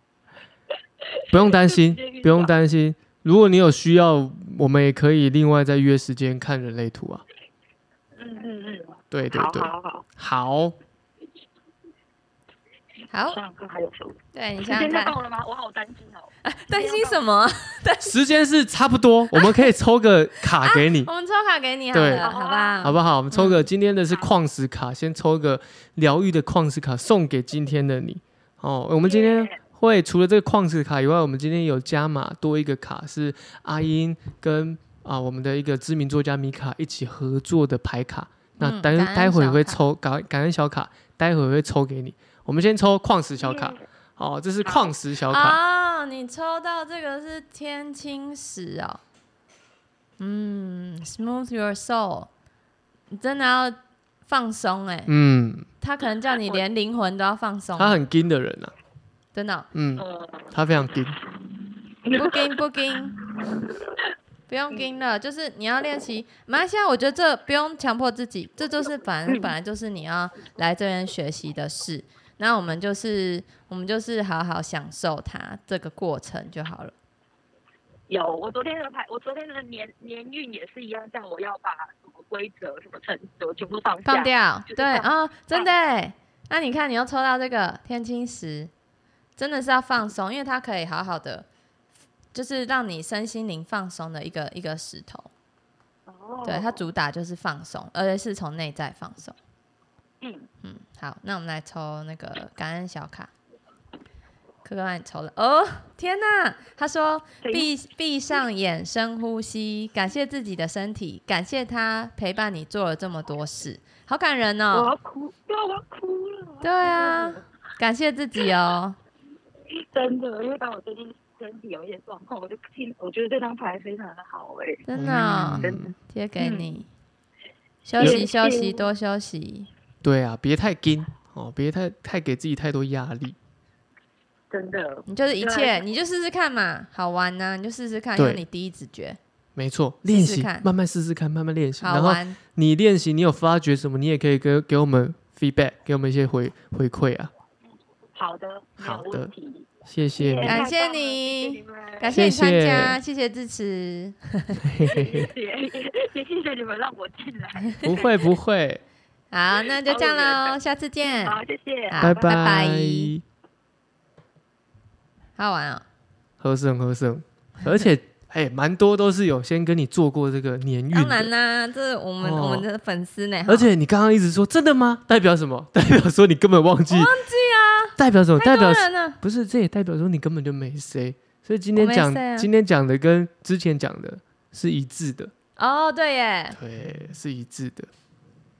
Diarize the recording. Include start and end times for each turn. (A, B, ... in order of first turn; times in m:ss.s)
0:01.1-0:02.5 A
0:01.3-0:07.2 B
0:08.1-0:10.0 A
0:09.1-0:10.8 B
0:13.1-0:13.4 C
0:13.2-0:17.2 A
0:14.3-0:15.2 C
0:16.4-0:18.1 C
0:18.0-0:21.1 B
0:19.4-0:19.7 C
0:20.6-0:23.6 C
0:21.9-0:22.2 B
0:22.2-0:23.0 A
0:22.8-0:45.6 B
0:29.0-0:29.6 A
0:38.6-0:39.8 C
0:43.4-0:43.8 A
0:44.6-0:44.9 A
0:45.3-0:49.0 C
0:50.2-0:52.3 C
0:53.1-0:55.1 C
0:55.1-0:55.7 B
0:55.8-0:58.0 C
0:57.8-0:58.7 B
0:59.3-0:59.7 C
0:59.7-1:01.2 B
1:00.0-1:00.5 A
1:02.0-1:04.0 A
1:02.1-1:03.2 C
1:04.5-1:16.9 C
1:09.3-1:09.5 A
1:18.1-1:25.7 A
1:24.0-1:28.7 C
1:29.4-1:31.4 C
1:32.3-1:35.3 C
1:36.0-1:36.8 A
1:36.4-1:39.4 C
1:40.2-1:40.5 A
1:40.6-1:43.3 C
1:44.6-1:54.9 C
1:47.4-1:47.7 A
1:54.7-1:57.4 A
1:56.6-1:59.0 C
1:59.8-2:04.8 A
2:04.9-2:06.9 C
2:04.9-2:05.9 B
2:06.4-2:06.7 A
2:07.8-2:09.7 C
2:08.0-2:08.9 A
2:08.0-2:08.3 B
2:10.0-2:13.4 B
2:14.5-2:16.0 A
2:15.1-2:19.2 C
2:18.2-2:18.4 B
2:19.6-2:27.3 B
2:20.0-2:20.6 C
2:21.8-2:22.4 C
2:28.1-2:32.2 A
2:28.8-2:29.3 B
2:29.8-2:30.6 B
2:30.4-2:34.6 C
2:32.0-2:33.0 B
2:34.6-2:35.3 B
2:34.9-2:38.0 A
2:37.8-2:38.8 B
2:39.3-2:41.4 C
2:39.6-2:42.2 A
2:41.9-2:43.1 C
2:42.0-2:43.2 B
2:45.4-2:45.8 C
2:46.4-2:51.3 B
2:50.9-2:53.7 C
2:52.2-2:52.6 B
2:53.5-2:57.1 B
2:56.9-2:59.2 C
2:58.0-3:05.3 B
3:01.8-3:02.5 C
3:05.6-3:06.6 C
3:06.5-3:07.9 B